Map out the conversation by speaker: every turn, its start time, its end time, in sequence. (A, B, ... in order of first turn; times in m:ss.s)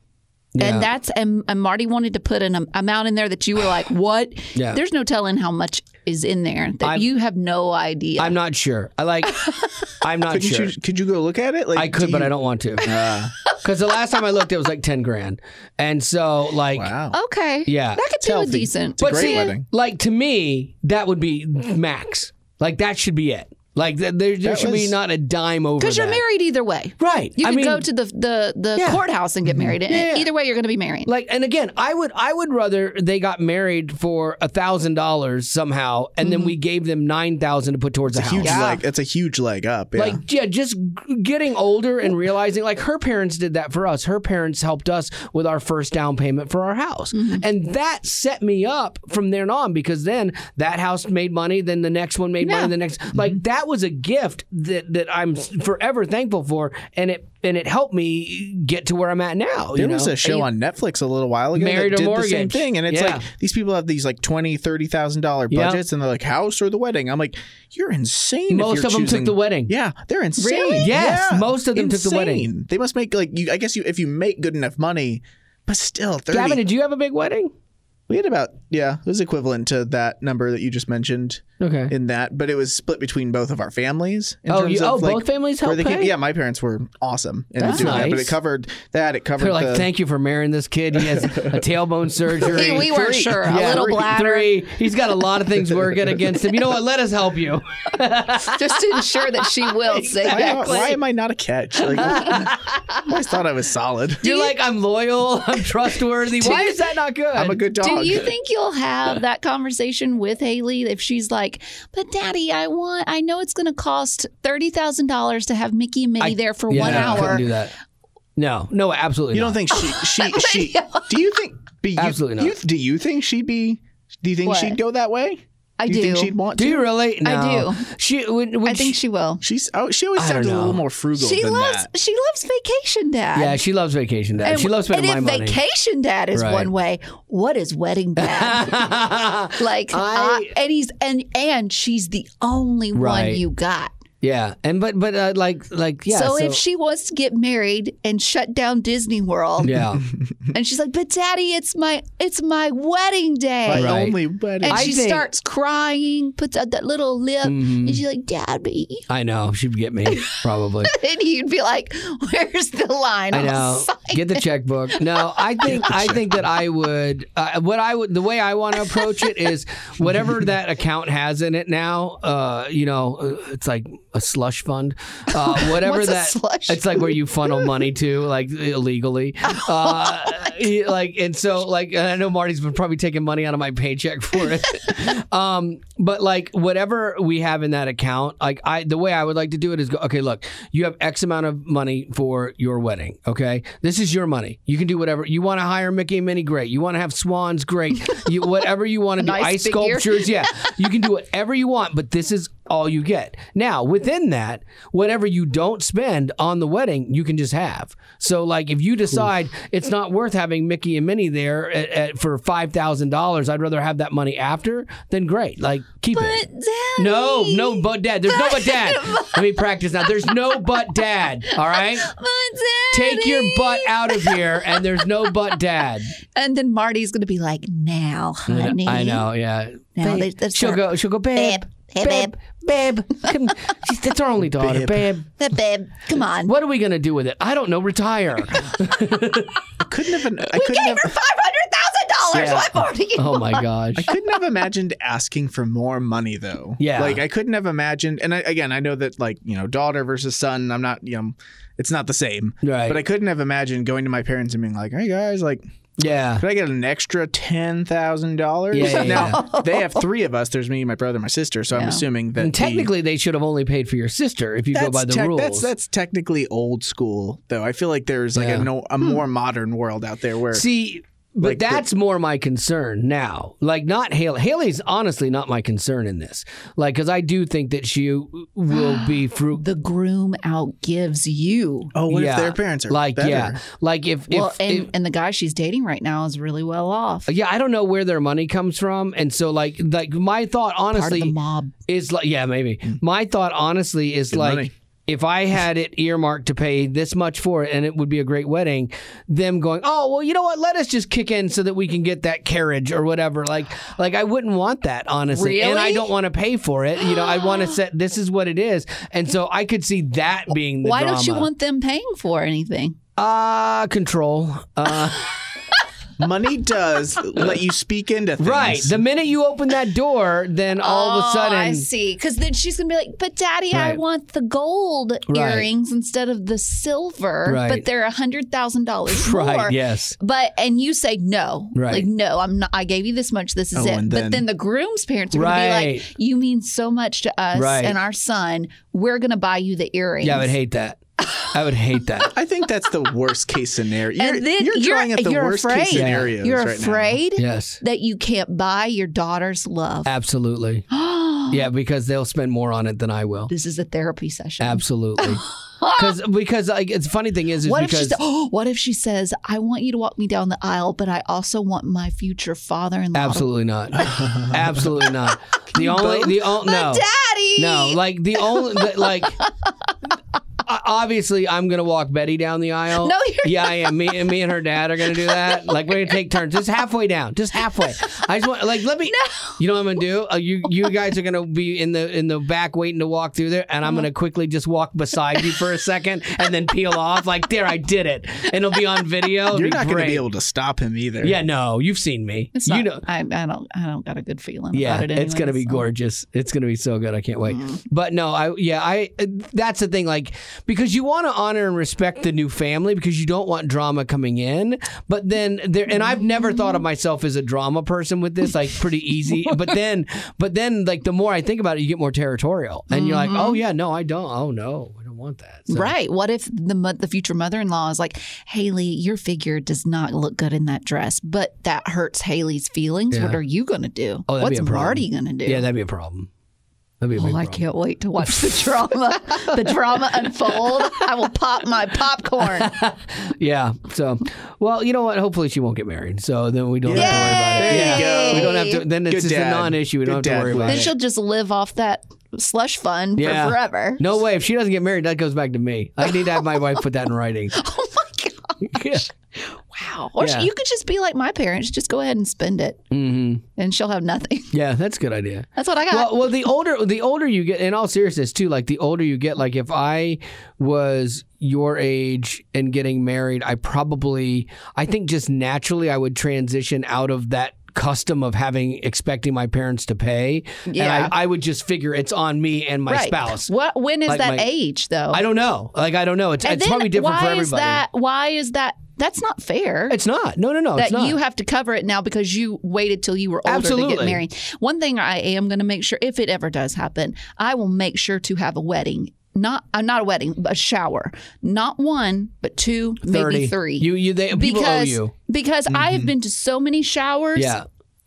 0:00.5-0:00.9 A
0:00.6-0:08.4 B
0:04.5-0:04.8 A
0:08.2-0:09.4 A
0:09.3-0:09.9 B
0:10.0-0:10.7 A
0:10.3-0:13.3 C
0:11.7-0:12.9 A
0:12.8-0:13.6 B
0:13.6-0:16.9 A
0:16.7-0:17.2 C
0:17.1-0:19.5 B
0:17.6-0:18.0 A
0:18.2-0:19.6 C
0:19.0-0:26.2 A
0:24.4-0:24.9 C
0:25.8-0:31.1 B
0:27.0-0:27.8 A
0:28.8-0:29.0 A
0:29.8-0:30.3 A
0:31.0-0:38.6 A
0:36.2-0:36.5 B
0:38.1-0:40.2 C
0:38.4-0:38.8 B
0:40.0-1:00.4 A
0:47.1-0:47.4 B
0:52.4-0:52.7 B
0:59.7-1:16.6 C
1:01.5-1:03.3 A
1:05.5-1:05.8 A
1:08.5-1:09.7 A
1:10.4-1:10.9 B
1:10.8-1:12.5 A
1:16.3-1:17.5 A
1:18.1-1:29.9 C
1:21.6-1:21.9 A
1:24.5-1:26.1 A
1:27.6-1:28.3 A
1:27.6-1:28.1 B
1:29.4-1:40.9 A
1:30.9-1:31.6 C
1:32.4-1:34.6 B
1:32.6-1:33.9 C
1:38.4-1:41.0 B
1:40.2-1:44.2 C
1:42.0-1:43.1 A
1:44.2-1:47.6 A
1:44.2-1:44.6 B
1:46.3-1:46.8 B
1:47.3-1:48.3 C
1:47.8-1:57.5 B
1:56.2-1:57.7 A
1:56.8-1:57.4 C
1:58.4-1:59.6 A
1:59.3-2:06.8 C
1:59.7-2:01.2 B
2:02.0-2:02.6 A
2:04.4-2:04.8 B
2:05.8-2:06.3 B
2:06.6-2:09.0 A
2:07.2-2:07.9 B
2:08.6-2:09.4 B
2:09.4-2:11.9 C
2:10.2-2:10.8 A
2:11.1-2:13.6 B
2:13.3-2:15.6 A
2:14.4-2:18.9 B
2:16.3-2:16.7 A
2:18.2-2:20.5 A
2:19.6-2:23.9 B
2:22.9-2:23.4 A
2:24.2-2:26.6 A
2:26.1-2:29.9 B
2:29.6-2:30.1 A
2:30.5-2:34.0 B
2:33.6-2:34.9 C
2:33.7-2:35.2 A
2:34.6-2:39.1 B
2:37.4-2:38.0 A
2:39.1-2:40.9 A
2:40.1-2:45.9 B
2:43.3-3:36.4 A
2:45.8-2:46.2 C
2:48.8-2:49.4 B
2:55.3-2:57.7 B
2:59.5-3:00.6 B
3:19.2-3:20.9 B
3:36.1-3:45.6 B
3:37.0-3:42.1 A
3:42.9-3:46.1 A
3:46.3-3:49.2 B
3:48.5-3:55.3 A
3:50.0-3:52.5 B
3:54.6-3:55.1 C
3:55.4-3:56.5 B
3:56.4-3:59.7 A
3:59.8-4:01.2 C
4:00.5-4:03.6 B
4:02.3-4:04.1 A
4:04.0-4:15.6 C
4:06.8-4:07.2 A
4:12.6-4:13.0 A
4:16.0-4:16.4 A
4:16.4-4:22.9 C
4:18.7-4:19.4 A
4:18.8-4:20.0 B
4:21.7-4:22.0 B
4:22.4-4:25.7 A
4:24.7-4:30.6 C
4:28.3-4:28.7 A
4:30.5-4:39.6 A
4:31.4-4:31.8 C
4:38.7-4:41.9 B
4:41.9-4:43.6 C
4:42.1-4:44.9 A
4:44.3-4:47.3 B
4:47.3-4:51.3 A
4:50.9-4:51.7 B
4:51.9-5:11.5 A
4:54.3-4:54.7 C
5:05.3-5:06.1 B
5:07.0-5:07.8 B
5:10.8-5:13.0 B
5:13.2-5:15.4 A
5:16.2-5:19.0 C
5:18.4-5:21.9 A
5:20.8-5:40.5 B
5:23.7-5:24.0 A
5:25.3-5:25.7 A
5:27.4-5:27.8 A
5:29.1-5:30.2 A
5:31.7-5:32.1 A
5:33.7-5:34.4 C
5:35.3-5:36.1 A
5:37.5-5:38.0 A
5:40.2-5:42.3 A
5:42.3-5:47.2 C
5:44.2-5:50.1 B
5:45.9-5:46.3 A
5:47.4-5:47.8 A
5:50.0-5:50.8 A
5:50.9-5:51.6 B
5:51.5-5:53.5 A
5:53.5-5:56.1 B
5:54.6-5:58.2 A
5:57.6-6:04.3 B
6:03.1-6:07.0 A
6:04.2-6:04.5 C
6:05.0-6:09.5 B
6:07.6-6:09.4 A
6:10.6-6:30.2 A
6:13.0-6:14.4 B
6:15.0-6:16.2 B
6:19.1-6:19.6 B
6:29.5-6:31.4 C
6:31.2-6:33.0 A
6:32.5-6:35.8 B
6:34.7-6:55.9 A
6:37.5-6:37.8 B
6:45.9-6:46.8 B
6:52.9-6:53.6 B
6:55.7-7:05.6 B
7:03.1-7:03.4 A
7:04.3-7:06.3 A
7:07.0-7:07.6 A
7:07.2-7:12.7 B
7:12.5-7:20.9 A
7:16.8-7:20.9 C
7:16.9-7:18.8 B
7:20.7-7:24.0 B
7:23.2-7:27.6 A
7:26.0-7:26.6 B
7:27.5-7:32.8 B
7:28.6-7:29.0 A
7:30.2-7:30.5 A
7:32.9-7:33.4 A
7:33.6-7:34.5 B
7:34.5-7:53.5 A
7:35.6-7:36.3 B
7:50.7-7:51.1 B
7:52.9-7:55.2 B
7:54.1-7:54.4 A
7:55.1-7:57.8 A
7:56.4-8:00.0 B
7:59.9-8:01.2 A
8:00.8-8:17.6 B
8:03.4-8:04.2 A
8:13.0-8:15.1 A
8:15.7-8:16.1 C
8:17.4-8:17.6 A